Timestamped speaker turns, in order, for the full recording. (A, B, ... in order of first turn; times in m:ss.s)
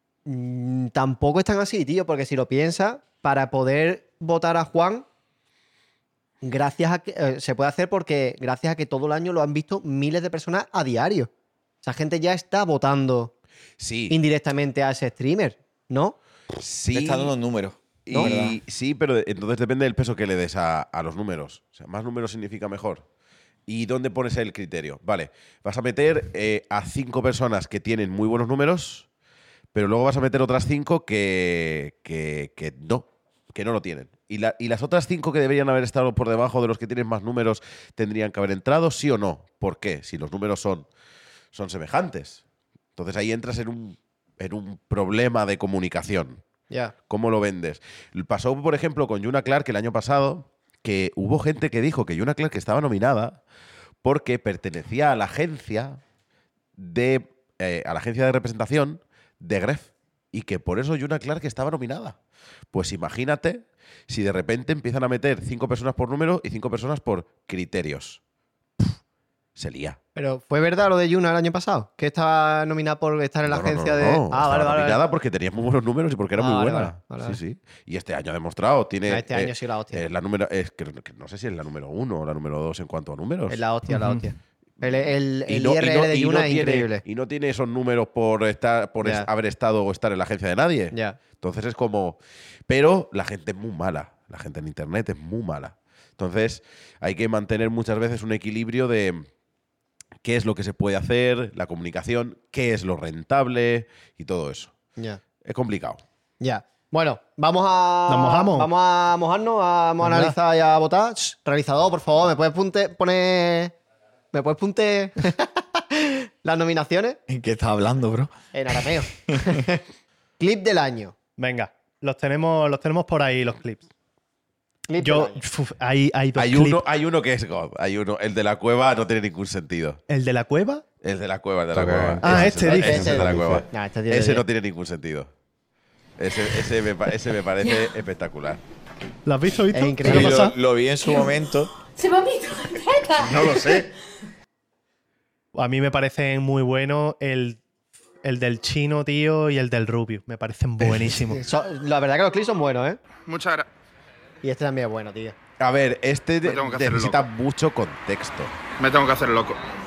0:00.2-0:05.0 A
0:06.4-0:11.3 A
0:11.8-0:13.3 A
0:13.8-0:14.2 B
0:14.1-0:16.2 A
0:16.6-0:17.3 B
0:16.9-0:18.6 C
0:18.1-0:23.0 B
0:23.7-0:29.1 B
0:29.7-0:40.9 B
0:41.5-0:42.4 B
0:43.0-0:46.4 B
0:47.1-0:53.4 B
0:54.0-0:56.0 B
0:56.8-1:02.2 B
1:02.7-1:08.2 B
1:09.6-1:10.0 B
1:10.2-1:15.0 A
1:13.4-1:23.6 B
1:16.4-1:17.4 A
1:19.1-1:20.0 A
1:23.5-1:27.0 A
1:23.9-1:24.3 D
1:24.9-1:39.2 B
1:30.9-1:31.2 A
1:40.2-1:44.7 B
1:45.4-1:46.0 B
1:46.4-1:53.7 A
1:48.1-1:48.7 D
1:50.0-1:50.4 D
1:54.3-1:57.2 A
1:57.3-1:58.3 C
1:58.5-1:59.8 A
1:59.3-1:59.5 C
2:00.4-2:01.1 A
2:01.4-2:03.9 D
2:04.9-2:05.4 A
2:05.0-2:06.8 D
2:06.4-2:10.0 B
2:10.1-2:10.8 D
2:11.0-2:15.3 B
2:11.7-2:13.6 C
2:12.2-2:13.2 D
2:12.8-2:14.4 A
2:16.2-2:18.6 B
2:19.2-2:20.5 D
2:19.7-2:20.5 A
2:20.0-2:21.7 C
2:23.2-2:23.7 C
2:23.2-2:23.8 D
2:25.5-2:27.6 D
2:28.2-2:31.4 D
2:31.2-2:33.0 A
2:33.2-2:33.6 E
2:34.4-2:35.4 A
2:35.6-2:38.5 B
2:36.4-2:37.2 E
2:38.8-2:39.6 E